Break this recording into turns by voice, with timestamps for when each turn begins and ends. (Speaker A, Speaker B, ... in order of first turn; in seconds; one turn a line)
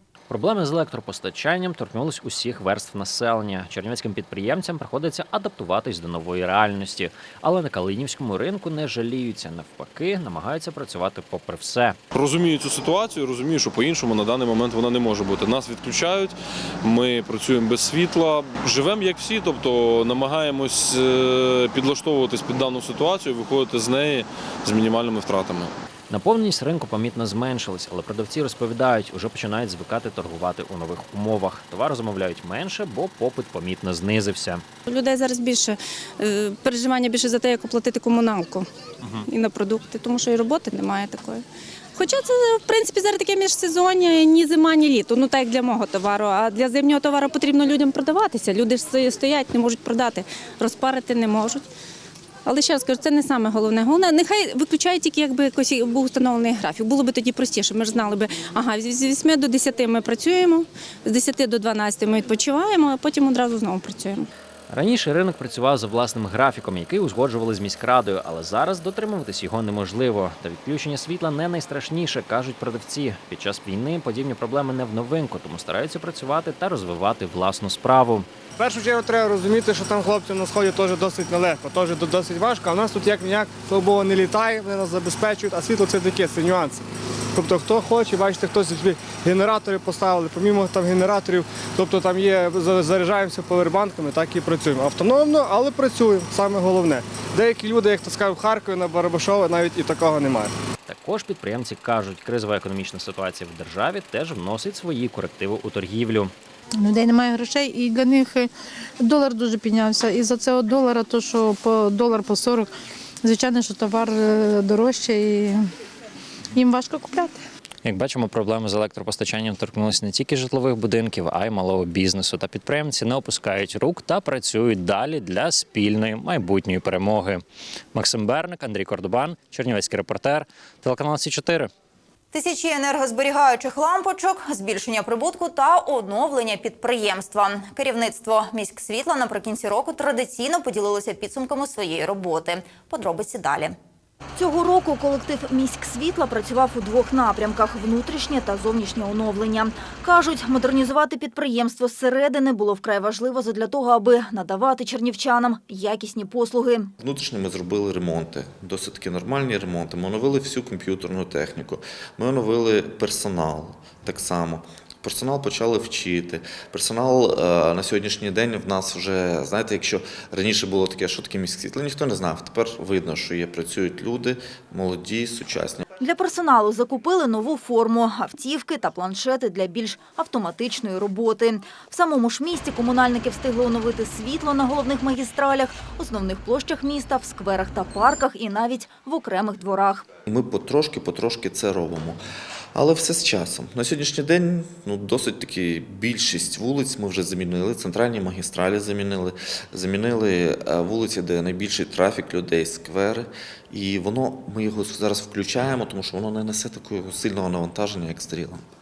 Speaker A: 0.3-12.0
Speaker B: 12.1-25.7
Speaker A: 26.1-34.6
Speaker C: 34.9-38.7
Speaker C: 39.2-41.4
Speaker C: 41.9-51.6
Speaker C: 52.4-64.3
Speaker A: 64.7-78.3
Speaker D: 78.6-86.8
Speaker D: 87.3-100.5
Speaker A: 100.9-106.3
Speaker E: 106.8-108.5
Speaker E: 109.0-112.7
Speaker E: 113.2-115.5
Speaker E: 116.5-117.3
Speaker A: 117.8-127.4
Speaker A: 127.9-131.7
Speaker F: 132.3-143.7
Speaker F: 144.3-156.9
Speaker G: 157.0-175.8
Speaker F: 176.0-190.1
Speaker G: 190.2-192.2
Speaker G: 192.7-208.6